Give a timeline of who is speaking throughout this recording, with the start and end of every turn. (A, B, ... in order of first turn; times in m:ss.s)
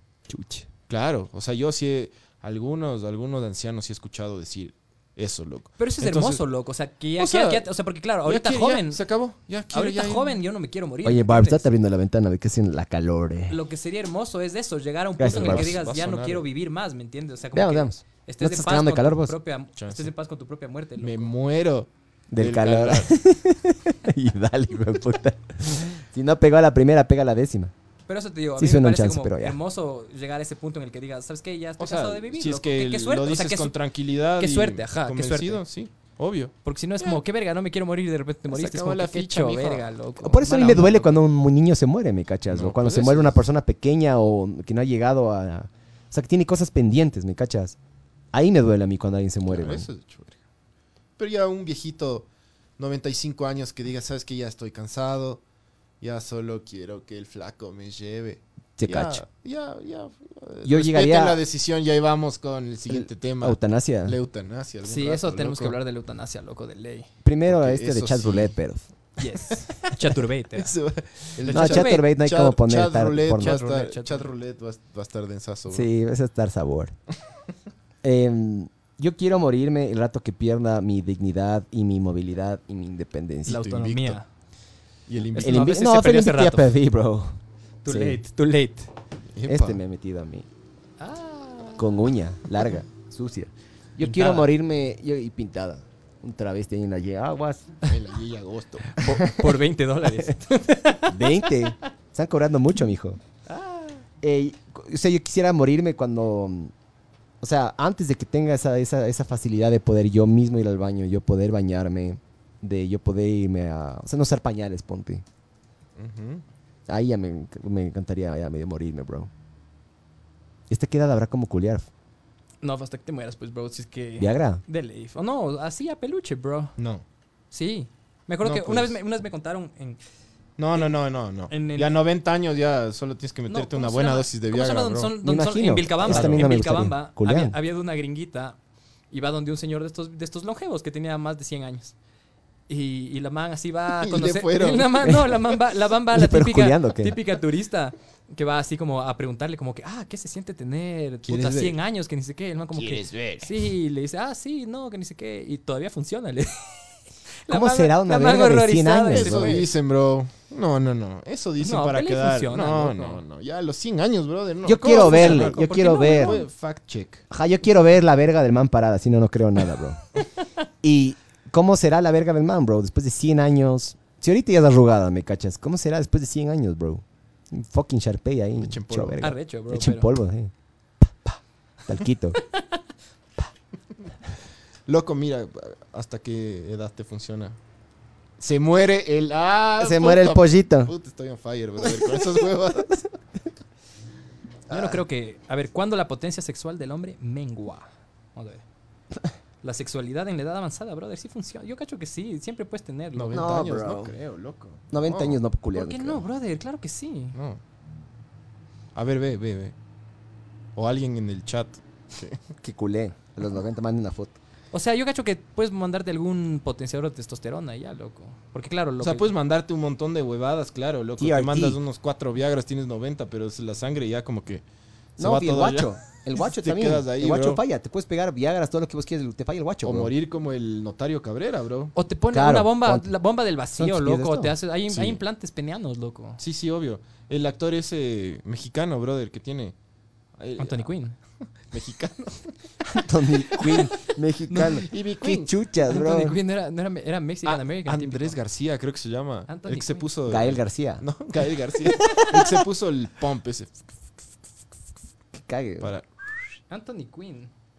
0:00.3-0:00.7 A
0:00.9-0:06.4 B
0:05.8-0:09.0 C
0:07.2-0:07.7 B
0:08.2-0:10.4 B
0:09.7-0:11.8 C
0:11.0-0:13.6 A
0:13.5-0:21.4 C
0:15.2-0:15.8 A
0:15.3-0:16.4 B
0:17.5-0:19.4 A
0:19.8-0:20.1 B
0:21.0-0:23.1 B
0:22.3-0:27.7 A
0:28.1-0:33.8 C
0:28.6-0:29.6 A
0:31.8-0:37.2 B
0:34.4-0:35.6 C
0:36.6-0:41.2 C
0:38.5-0:39.9 B
0:40.2-0:47.8 A
0:42.5-0:43.4 B
0:48.3-0:49.9 A
0:49.5-0:50.4 B
0:51.2-0:52.3 B
0:52.8-0:55.4 B
0:56.0-1:05.8 B
0:58.8-0:59.2 A
1:00.6-1:01.4 A
1:02.9-1:04.2 A
1:04.8-1:07.1 C
1:07.2-1:08.8 A
1:07.5-1:08.5 B
1:09.2-1:10.7 C
1:10.6-1:15.9 B
1:11.5-1:12.1 C
1:11.5-1:13.6 A
1:13.4-1:14.3 C
1:15.7-1:17.0 A
1:18.0-1:23.6 A
1:23.5-1:24.2 B
1:23.5-1:24.3 C
1:25.1-1:25.7 B
1:25.4-1:26.8 C
1:25.4-1:28.2 A
1:27.8-1:28.9 C
1:29.3-1:29.8 B
1:29.5-1:30.5 A
1:31.0-1:32.0 C
1:31.8-1:37.8 A
1:34.0-1:34.5 C
1:37.9-1:39.0 B
1:38.9-1:41.6 C
1:39.1-1:39.5 A
1:41.1-1:43.2 A
1:43.5-1:44.0 C
1:44.2-1:46.7 A
1:47.4-1:55.2 A
1:56.0-1:56.4 B
1:56.9-1:59.3 A
2:00.7-2:01.9 A
2:02.6-2:06.8 C
2:04.2-2:04.6 A
2:06.8-2:07.0 B
2:07.5-2:10.0 C
2:08.4-2:09.0 B
2:10.6-2:15.2 B
2:11.5-2:11.9 C
2:13.5-2:18.6 C
2:15.2-2:17.6 A
2:16.1-2:16.6 B
2:19.1-2:22.0 C
2:22.7-2:36.9 C
2:24.0-2:25.2 B
2:26.1-2:27.2 A
2:31.2-2:31.8 B
2:32.8-2:33.5 B
2:37.5-2:39.7 C
2:37.5-2:39.7 A
2:39.1-2:47.2 B
2:41.6-2:43.2 C
2:44.6-2:46.4 A
2:44.8-2:46.4 C
2:47.3-2:50.0 A
2:50.8-3:02.4 A
2:58.6-2:59.3 B
2:59.2-3:00.1 C
3:02.4-3:02.6 C
3:04.9-3:07.6 B
3:08.4-3:13.1 B
3:09.8-3:10.9 A
3:14.7-3:18.6 C
3:14.7-3:15.0 A
3:19.6-3:23.5 C
3:23.2-3:25.4 B
3:23.3-3:24.2 A
3:24.9-3:26.2 A
3:25.7-3:27.4 C
3:27.4-3:27.6 B
3:29.0-3:29.8 B
3:30.8-3:32.4 B
3:32.6-3:34.4 A
3:34.7-3:39.3 C
3:39.0-3:44.6 B
3:41.2-3:41.8 A
3:45.2-3:47.6 B
3:45.2-3:50.1 A
3:49.8-3:51.9 B
3:52.0-3:56.4 C
3:52.3-3:53.1 A
3:53.8-3:54.5 A
3:54.9-3:55.2 B
3:56.4-3:59.8 B
4:00.4-4:00.9 B
4:00.6-4:01.2 C
4:01.7-4:02.6 B
4:02.8-4:06.4 A
4:03.6-4:03.9 B
4:04.5-4:04.9 C
4:04.6-4:05.5 B
4:05.9-4:08.4 C
4:07.4-4:14.3 B
4:09.5-4:10.1 C
4:10.3-4:11.0 A
4:11.8-4:12.6 A
4:15.3-4:15.9 A
4:15.8-4:16.6 B
4:16.7-4:17.5 C